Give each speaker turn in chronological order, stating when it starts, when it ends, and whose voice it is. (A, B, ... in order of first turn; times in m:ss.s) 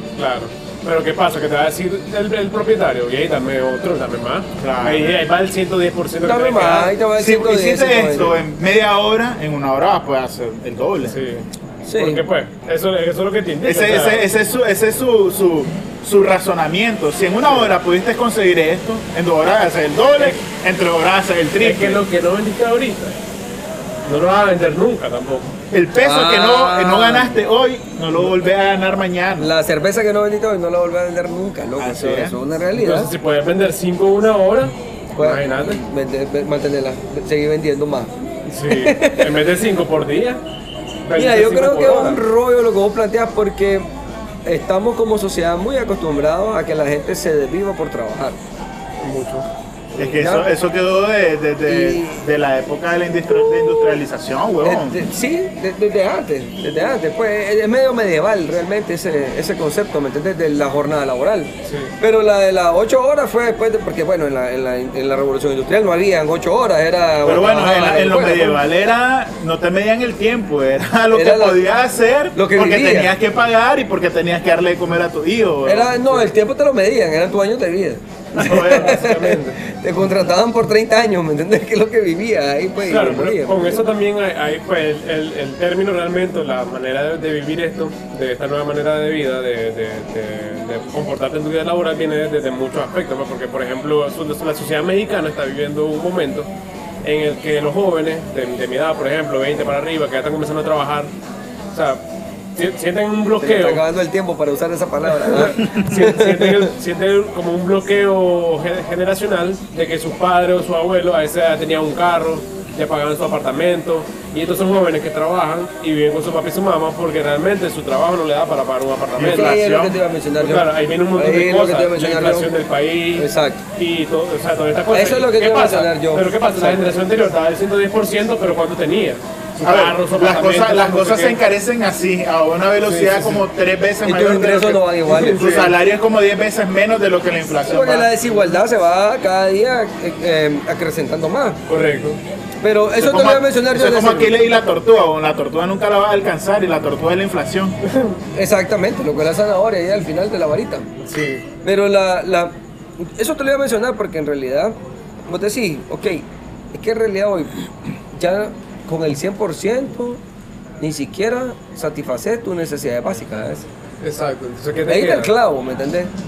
0:00.2-0:07.0 A
0:04.6-0:05.2 B
0:06.2-0:08.4 C
0:07.1-0:11.1 B
0:11.0-0:14.3 A
0:11.9-0:12.2 C
0:13.6-0:22.0 B
0:21.6-0:23.2 A
0:24.0-0:25.5 A
0:25.7-0:29.5 B
0:26.0-0:27.4 C
0:29.4-0:33.1 C
0:31.8-0:32.4 B
0:32.7-0:35.8 A
0:35.2-0:39.4 C
0:38.5-0:40.4 A
0:41.0-0:42.2 A
0:41.1-0:43.9 C
0:44.4-0:48.4 C
0:49.0-0:49.4 A
0:50.0-0:55.0 B
0:50.0-0:50.5 C
0:51.7-0:52.2 C
0:54.6-1:08.6 C
1:01.6-1:01.9 A
1:07.2-1:16.2 B
1:11.1-1:11.7 C
1:12.3-1:13.1 C
1:15.6-1:23.9 C
1:18.4-1:19.6 A
1:18.4-1:19.0 B
1:22.8-1:36.5 A
1:37.0-1:41.1 A
1:41.7-1:42.0 A
1:42.6-1:43.8 A
1:43.4-1:46.7 C
1:45.2-1:59.6 A
1:59.2-2:00.0 B
1:59.2-2:02.5 C
2:00.4-2:11.4 A
2:03.2-2:03.6 C
2:04.9-2:06.8 C
2:09.6-2:18.1 B
2:12.8-2:13.4 A
2:14.0-2:15.8 C
2:17.7-2:21.6 C
2:21.7-2:22.2 A
2:22.6-2:24.3 C
2:23.0-2:27.8 B
2:27.9-2:28.1 A
2:28.3-2:30.9 C
2:31.0-2:31.4 A
2:31.6-2:40.2 C
2:40.8-2:43.7 C
2:44.0-2:45.3 A
2:44.9-2:46.1 C